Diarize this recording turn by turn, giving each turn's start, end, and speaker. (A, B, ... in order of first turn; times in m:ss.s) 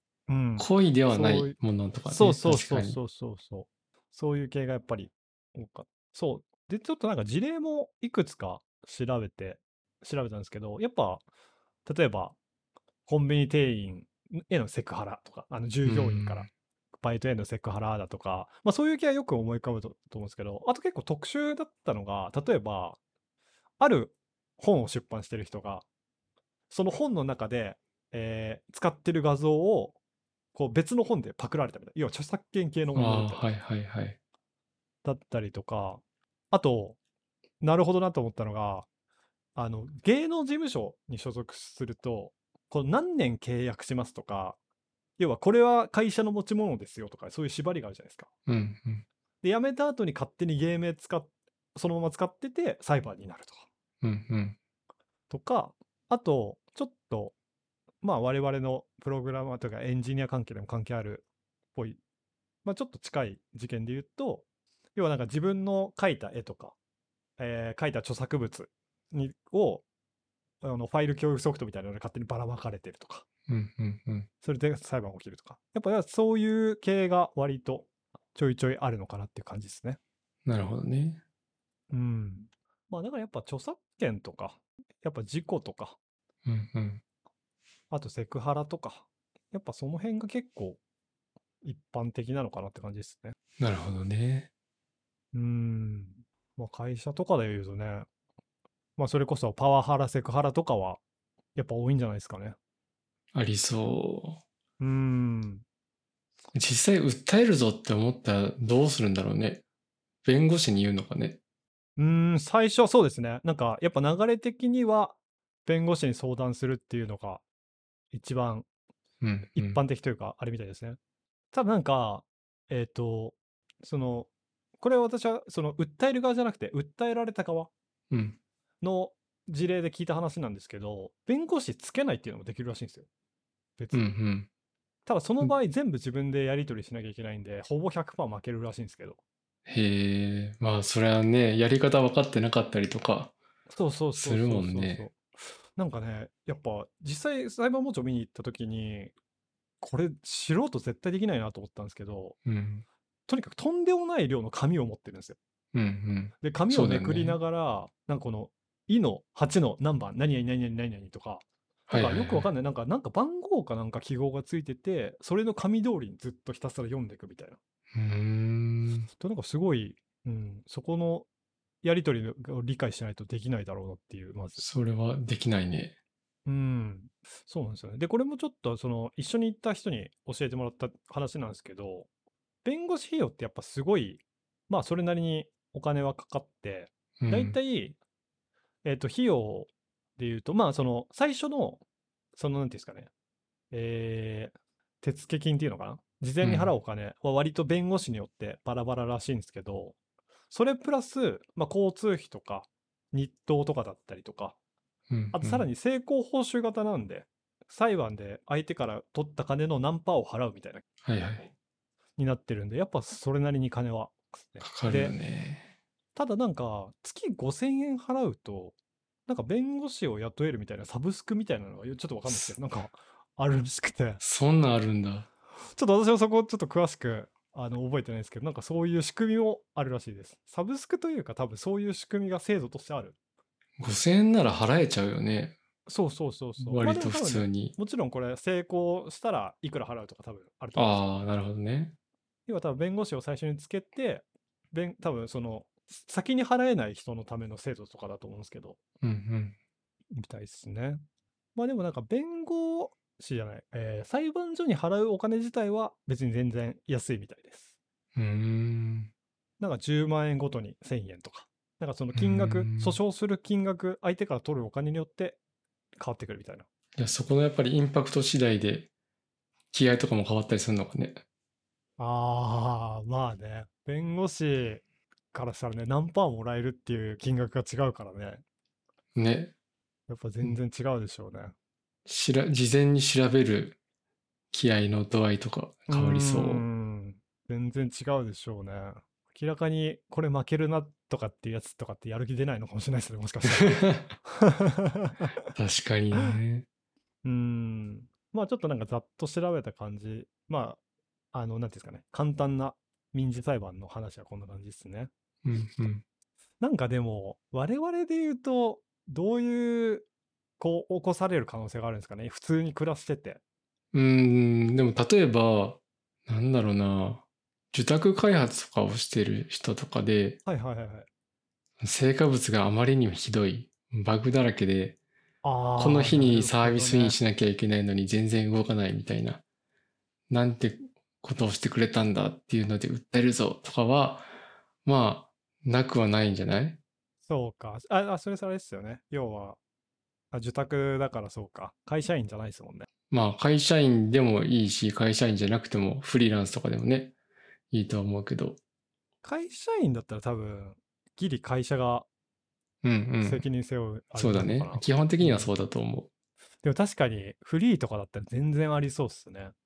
0:00.3-0:11.2 A
0:00.6-0:03.0 B
0:11.9-0:12.4 A
0:13.1-0:16.5 A
0:15.8-0:16.5 B
0:17.0-0:23.0 A
0:23.8-0:25.9 A
0:26.7-0:30.0 A
0:30.5-0:33.5 A
0:32.9-0:34.2 B
0:35.0-0:37.0 A
0:37.6-0:38.9 A
0:39.6-0:44.6 A
0:45.2-0:48.3 A
0:48.5-0:49.0 B
0:49.4-0:53.7 A
0:54.0-0:54.6 B
0:55.3-0:57.3 A
0:58.0-1:02.0 A
1:02.6-1:06.8 A
1:07.4-1:09.8 A
1:10.6-1:13.2 A
1:13.5-1:14.3 B
1:14.4-1:20.0 A
1:20.4-1:21.2 B
1:21.9-1:26.0 A
1:26.4-1:27.0 B
1:27.9-1:30.8 A
1:31.6-1:33.4 A
1:33.6-1:34.5 B
1:35.3-1:38.1 A
1:39.0-1:41.0 A
1:41.6-1:42.6 A
1:43.3-1:44.4 B
1:44.8-1:45.6 A
1:46.5-1:49.6 B
1:50.2-1:51.4 B
1:52.0-1:57.4 A
1:58.1-1:58.7 A
1:59.2-1:59.8 B
1:59.6-2:01.0 A
2:01.5-2:04.3 A
2:04.8-2:07.7 A
2:08.1-2:08.4 B
2:08.8-2:13.1 A
2:13.8-2:14.1 A
2:13.9-2:14.5 B
2:15.1-2:19.2 A
2:19.7-2:23.3 B
2:23.7-2:25.2 A
2:24.2-2:25.0 B
2:25.8-2:29.1 A
2:29.8-2:32.4 A
2:32.4-2:32.8 B
2:33.3-2:35.4 A
2:35.7-2:37.4 B
2:36.4-2:47.6 A
2:41.9-2:42.5 B
2:47.9-2:49.1 B
2:49.2-2:51.3 A
2:51.8-2:54.6 A
2:54.6-2:55.9 B
2:56.4-3:02.1 A
3:02.6-3:08.0 A
3:07.2-3:07.6 B
3:08.8-3:11.8 A
3:12.4-3:13.1 A
3:13.7-3:20.0 A
3:16.4-3:16.7 B
3:20.5-3:24.6 A
3:25.1-3:25.7 B
3:25.3-3:30.8 A
3:31.0-3:31.5 B
3:32.2-3:35.2 A
3:34.6-3:35.7 B
3:36.2-3:38.7 A
3:39.3-3:44.2 A
3:44.2-3:45.3 B
3:45.7-3:53.2 A
3:53.8-3:55.6 B
3:55.8-4:01.1 A
3:56.6-3:57.7 B
4:00.7-4:01.9 B
4:02.5-4:08.8 A
4:09.0-4:09.6 B
4:10.1-4:11.0 A
4:11.6-4:17.7 A
4:18.2-4:19.1 B
4:19.6-4:25.4 A
4:22.2-4:23.0 B
4:26.0-4:26.7 A
4:27.0-4:28.9 B
4:29.7-4:31.2 B
4:32.0-4:38.4 A
4:39.2-4:39.5 B
4:40.1-4:41.6 A
4:42.1-4:43.8 B
4:44.5-4:46.7 B
4:45.9-4:55.3 A
4:53.6-4:54.1 B
4:55.5-4:56.7 B
4:57.2-5:00.8 A
5:01.3-5:05.1 A
5:05.4-5:06.0 B
5:06.6-5:10.1 A
5:10.6-5:13.4 A
5:13.9-5:20.4 B
5:20.4-5:21.1 A
5:21.8-5:25.0 B
5:25.4-5:27.2 A
5:25.8-5:29.4 B
5:30.3-5:34.3 B
5:34.8-5:36.8 B
5:37.3-5:39.6 A
5:40.3-5:42.9 A
5:43.1-5:47.1 B
5:47.7-5:48.6 B
5:49.2-5:52.1 A
5:52.8-5:53.4 B
5:53.2-5:55.5 A
5:54.2-5:56.1 B
5:56.6-5:59.5 A